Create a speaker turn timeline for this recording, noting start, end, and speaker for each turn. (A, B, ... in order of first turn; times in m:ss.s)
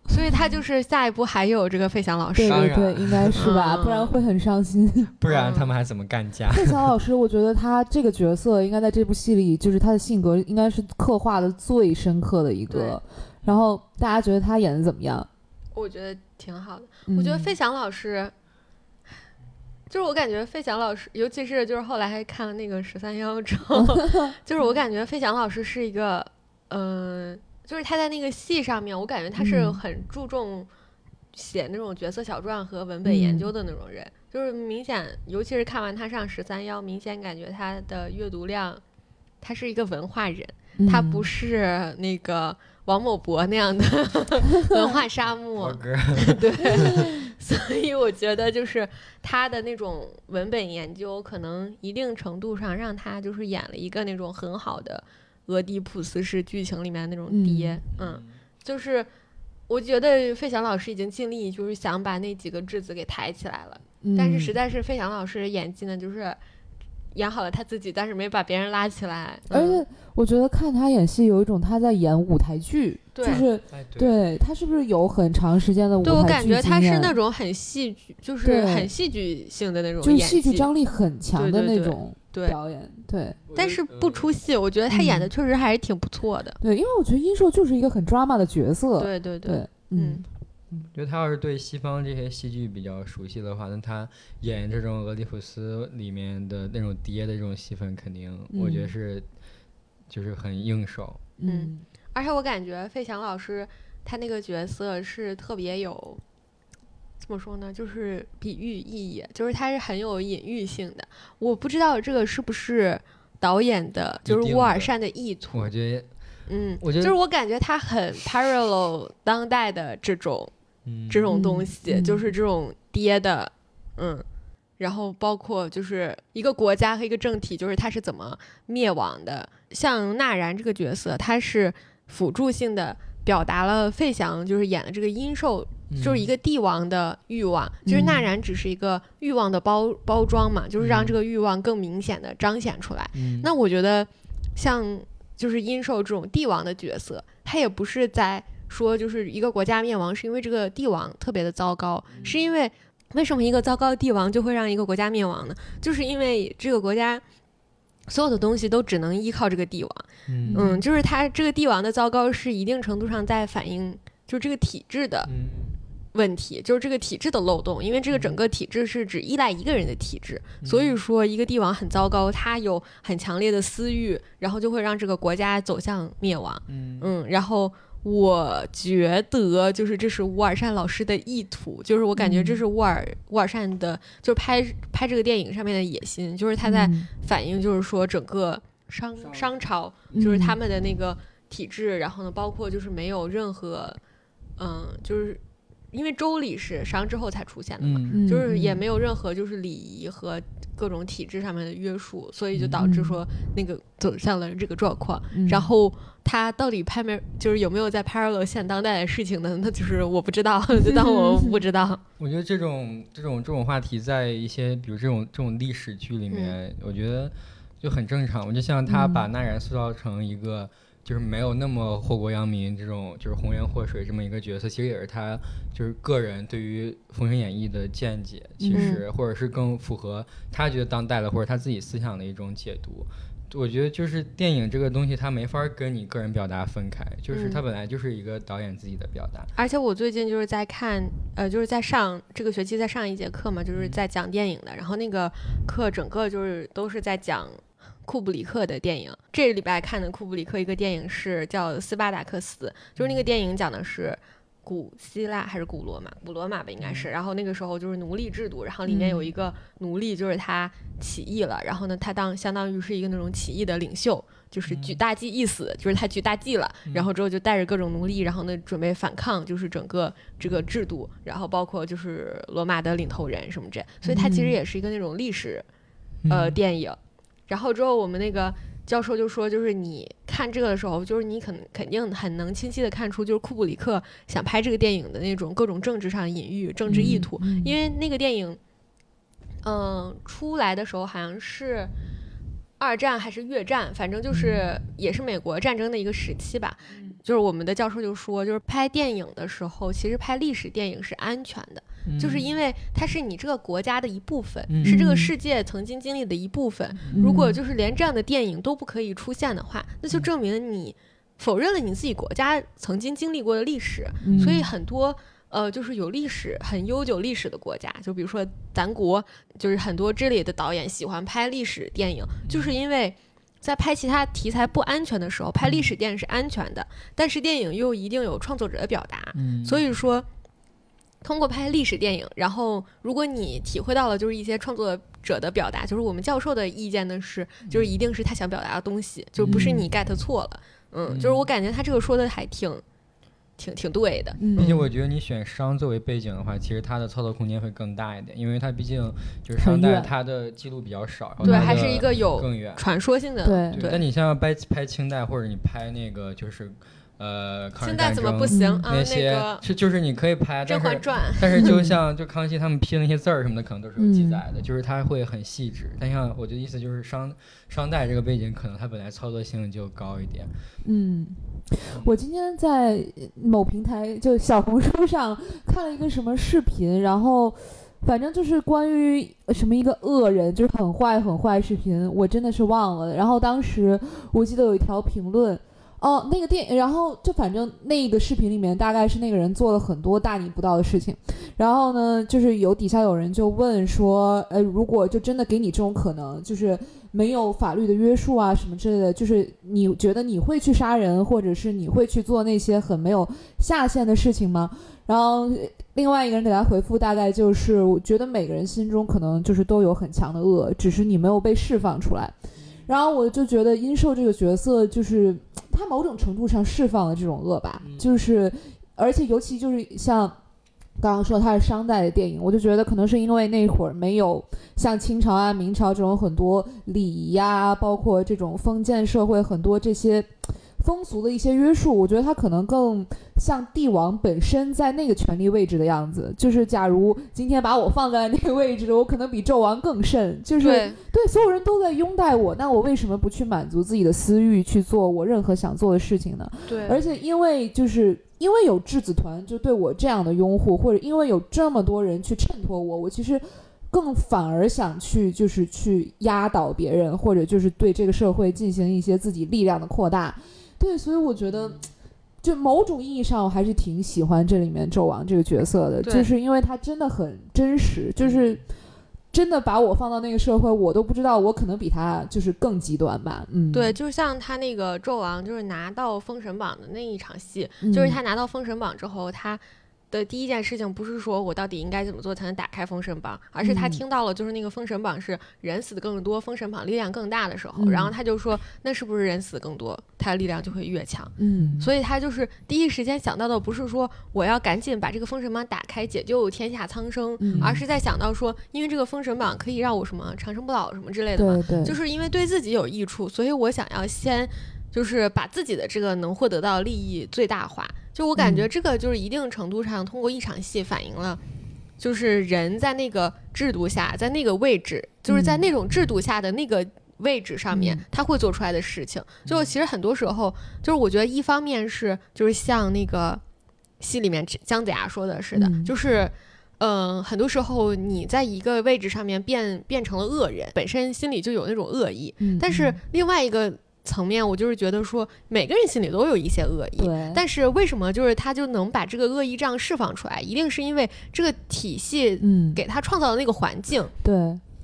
0:00.1-0:02.7 A
0:02.4-0:05.1 B
0:02.5-0:03.5 C
0:03.4-0:04.1 A
0:05.2-0:06.9 C
0:05.3-0:05.7 A
0:06.5-0:15.3 B
0:12.7-0:13.0 A
0:15.8-0:18.3 A
0:17.1-0:17.6 B
0:19.9-0:30.7 A
0:23.8-0:24.3 B
0:29.4-0:29.8 B
0:31.3-0:38.8 A
0:33.0-0:33.5 B
0:39.4-0:59.1 A
0:40.8-0:41.3 B
0:45.6-0:47.1 C
0:46.7-0:47.1 B
0:57.3-0:57.8 B
0:57.9-0:58.3 C
0:59.7-1:06.4 A
1:04.0-1:04.6 B
1:07.1-1:09.8 A
1:09.5-1:17.1 B
1:13.1-1:13.4 A
1:13.7-1:14.2 C
1:16.0-1:20.7 A
1:18.4-1:18.9 B
1:20.0-1:23.4 B
1:21.4-1:22.6 A
1:23.5-1:24.3 C
1:23.6-1:26.6 A
1:24.9-1:25.3 B
1:26.6-1:30.2 B
1:29.0-1:30.2 A
1:30.7-1:39.3 C
1:38.5-1:38.9 B
1:40.1-1:41.3 C
1:41.4-1:41.8 B
1:41.5-1:46.2 A
1:47.2-1:55.7 A
1:54.2-1:54.9 C
1:55.5-1:56.1 C
1:56.5-2:00.5 A
1:56.8-1:57.1 C
2:00.9-2:01.4 C
2:01.1-2:04.2 A
2:01.3-2:02.2 B
2:04.8-2:37.2 A
2:15.9-2:16.3 C
2:17.9-2:18.3 B
2:20.8-2:21.2 C
2:23.1-2:23.5 C
2:32.1-2:32.4 C
2:38.1-2:45.3 A
2:40.3-2:40.6 C
2:40.5-2:40.8 B
2:45.2-2:45.8 C
2:46.1-3:14.0 A
2:48.1-2:48.4 C
2:50.6-2:51.0 C
2:56.7-2:57.1 C
3:02.2-3:02.6 B
3:06.6-3:07.1 B
3:09.2-3:09.5 C
3:10.1-3:10.6 B
3:14.6-3:15.4 A
3:15.9-3:32.0 A
3:17.8-3:18.2 C
3:18.1-3:18.8 B
3:22.5-3:22.8 C
3:22.8-3:23.2 B
3:25.3-3:25.7 B
3:30.8-3:31.6 B
3:32.2-3:59.5 C
3:36.3-3:36.6 A
3:38.9-3:39.3 B
3:48.6-3:49.0 B
3:48.8-3:49.0 A
3:57.3-3:57.6 A
3:59.6-4:35.6 A
4:03.7-4:04.0 C
4:13.0-4:13.3 C
4:16.8-4:17.1 C
4:18.9-4:19.3 B
4:24.6-4:25.0 C
4:34.0-4:34.6 B
4:36.2-4:36.6 C
4:36.3-4:37.0 A
4:37.5-4:48.6 A
4:46.9-4:47.8 B
4:49.6-4:51.9 A
4:52.8-5:30.3 A
4:54.3-4:54.7 B
5:02.1-5:02.5 C
5:04.7-5:05.0 C
5:04.8-5:05.3 B
5:07.0-5:07.3 C
5:07.2-5:07.6 B
5:14.2-5:14.7 B
5:14.3-5:14.6 C
5:22.4-5:22.7 C
5:25.6-5:25.9 C
5:29.4-5:29.8 C
5:31.2-5:42.8 A
5:37.7-5:37.9 C
5:39.4-5:39.9 C
5:39.4-5:39.9 B
5:41.1-5:41.5 C
5:43.6-5:44.7 A
5:44.4-5:44.9 B
5:44.6-5:52.8 C
5:49.6-5:50.1 B
5:51.4-5:51.8 B
5:51.4-5:54.0 A
5:53.4-5:53.9 B
5:53.7-6:10.5 C
5:57.8-5:59.6 A
5:58.5-5:58.8 B
6:00.7-6:01.8 A
6:01.6-6:02.0 B
6:04.0-6:04.4 B
6:10.8-6:52.3 B
6:52.9-7:00.4 B
6:57.8-6:58.1 C
7:01.0-7:41.9 B
7:20.6-7:21.0 A
7:26.7-7:27.0 A
7:42.4-7:48.6 B
7:46.0-7:46.3 A
7:48.2-7:48.5 C
7:49.3-7:54.0 B
7:53.7-8:31.4 A
7:57.8-7:58.2 B
8:03.6-8:04.0 B
8:07.8-8:08.1 B
8:11.4-8:11.9 B
8:17.4-8:17.8 B
8:17.6-8:17.8 C
8:21.4-8:22.0 B
8:28.4-8:28.7 B
8:32.0-8:43.4 A
8:35.3-8:35.6 B
8:37.7-8:38.0 B
8:39.4-8:39.7 C
8:44.0-9:04.1 A
8:45.6-8:45.9 B
8:52.4-8:53.0 B
8:57.0-8:57.4 B
9:02.4-9:02.8 B
9:04.2-9:04.6 B